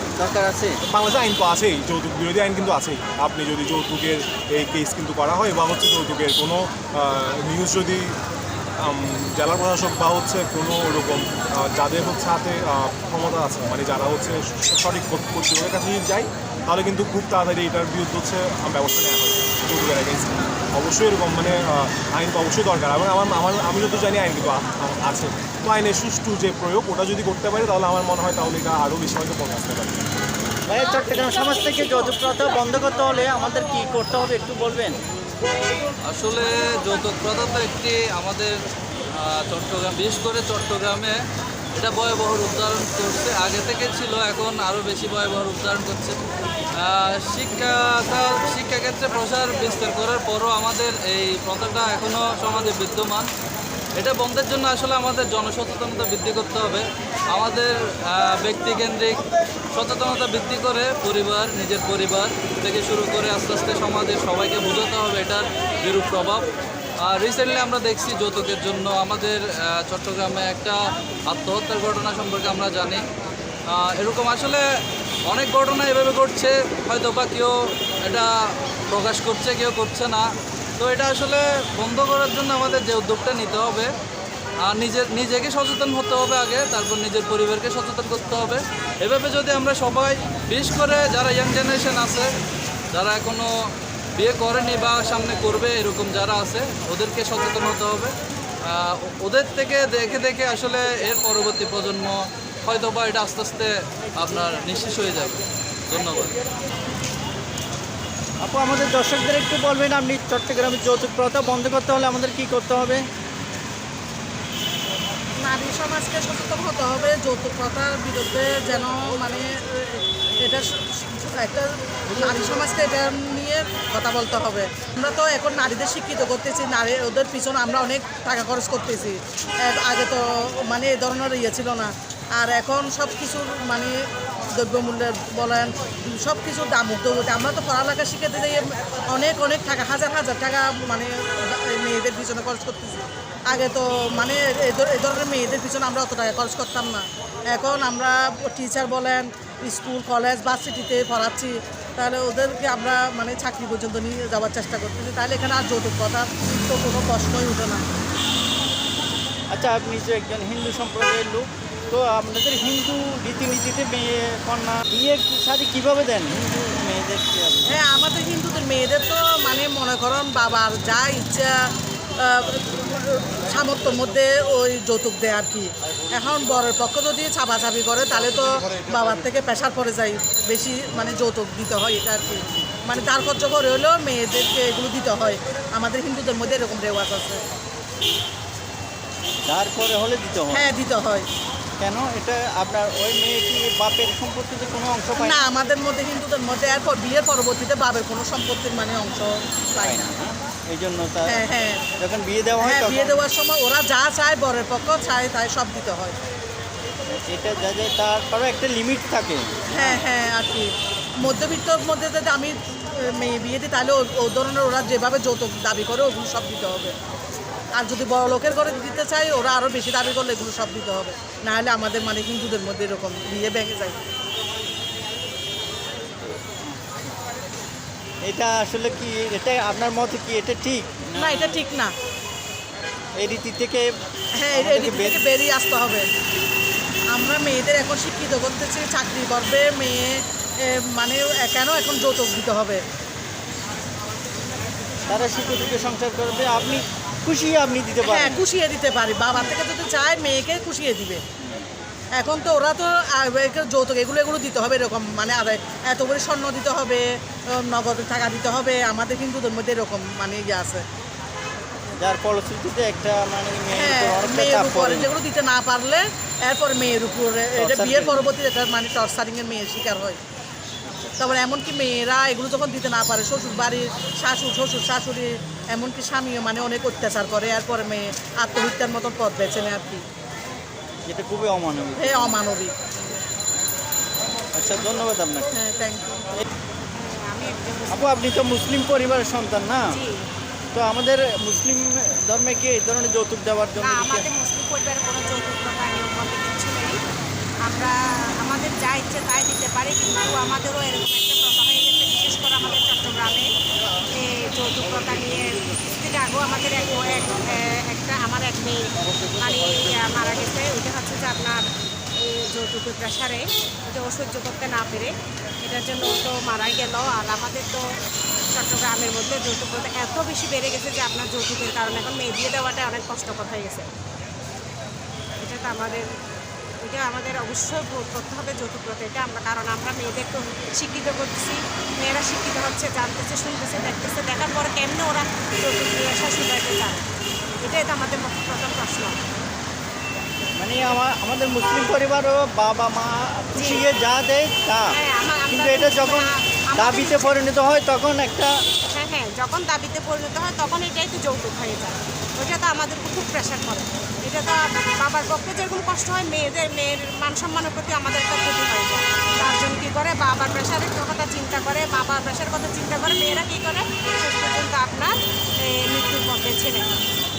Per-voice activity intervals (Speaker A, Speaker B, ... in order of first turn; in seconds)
Speaker A: 0.2-0.7, 30.7-35.0, 108.4-113.0, 159.5-167.8, 189.4-190.7, 191.8-195.4, 199.8-201.4, 202.0-203.2, 207.2-210.0, 228.2-231.6, 233.2-233.9, 234.5-235.2, 245.1-248.4, 251.4-251.7, 262.0-265.1, 267.6-268.3, 270.9-271.3, 281.1-282.4, 284.6-285.5, 287.9-289.9, 290.7-294.2, 340.6-344.9, 345.5-348.5
Speaker B: 0.9-8.1, 8.8-30.1
Speaker C: 36.1-38.5, 39.1-41.1, 41.8-46.1, 46.8-53.2, 54.0-59.2, 59.7-66.4, 67.0-70.8, 71.3-73.0, 73.7-74.6, 75.3-77.5, 78.9-80.2, 80.8-83.9, 84.6-92.3, 92.9-93.5, 94.2-98.1, 98.7-106.3
Speaker D: 115.4-133.9, 134.5-157.8, 167.7-171.5, 172.2-187.4, 190.5-191.2, 195.2-200.1, 201.2-201.8, 202.6-206.1, 209.7-210.7, 211.2-216.9, 217.7-224.0, 231.2-231.9, 234.4-236.1, 237.1-242.8, 248.0-251.2, 252.2-257.0, 257.6-260.8, 263.7-270.2, 271.2-280.0, 282.0-282.7, 285.5-286.3
Speaker E: 286.9-288.3, 289.9-290.2, 293.8-297.0, 297.6-303.4, 304.1-311.6, 312.2-315.1, 315.6-317.8, 318.5-323.9, 325.4-326.1, 326.8-337.0, 337.6-339.2, 343.6-343.8, 344.9-347.3, 348.9-365.1, 365.6-366.9